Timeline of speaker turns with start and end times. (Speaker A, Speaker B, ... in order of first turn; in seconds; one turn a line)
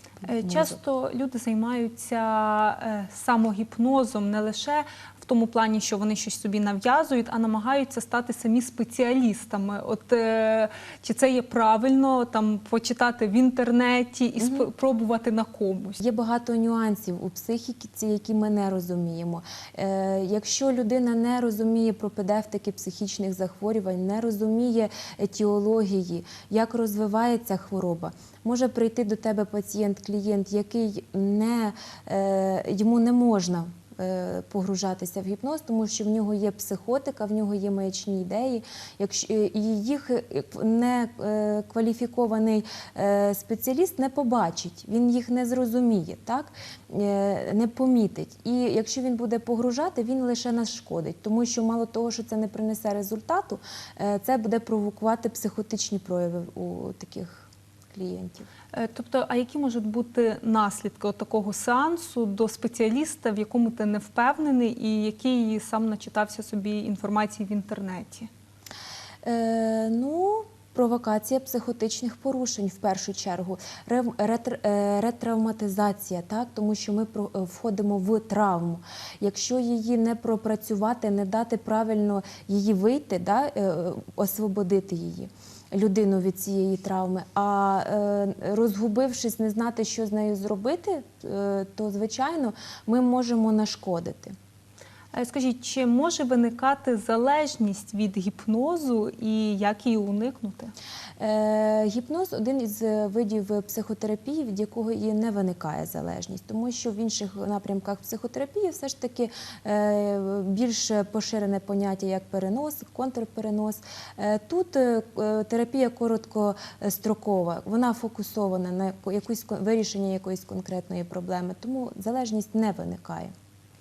Speaker A: 0.2-16.0
Speaker B: 0.4-0.8
Speaker B: 14.4-14.7
Speaker B: 16.0-58.5
Speaker A: 58.7-68.3
Speaker B: 69.2-94.3
Speaker A: 95.1-100.7
Speaker B: 101.2-123.3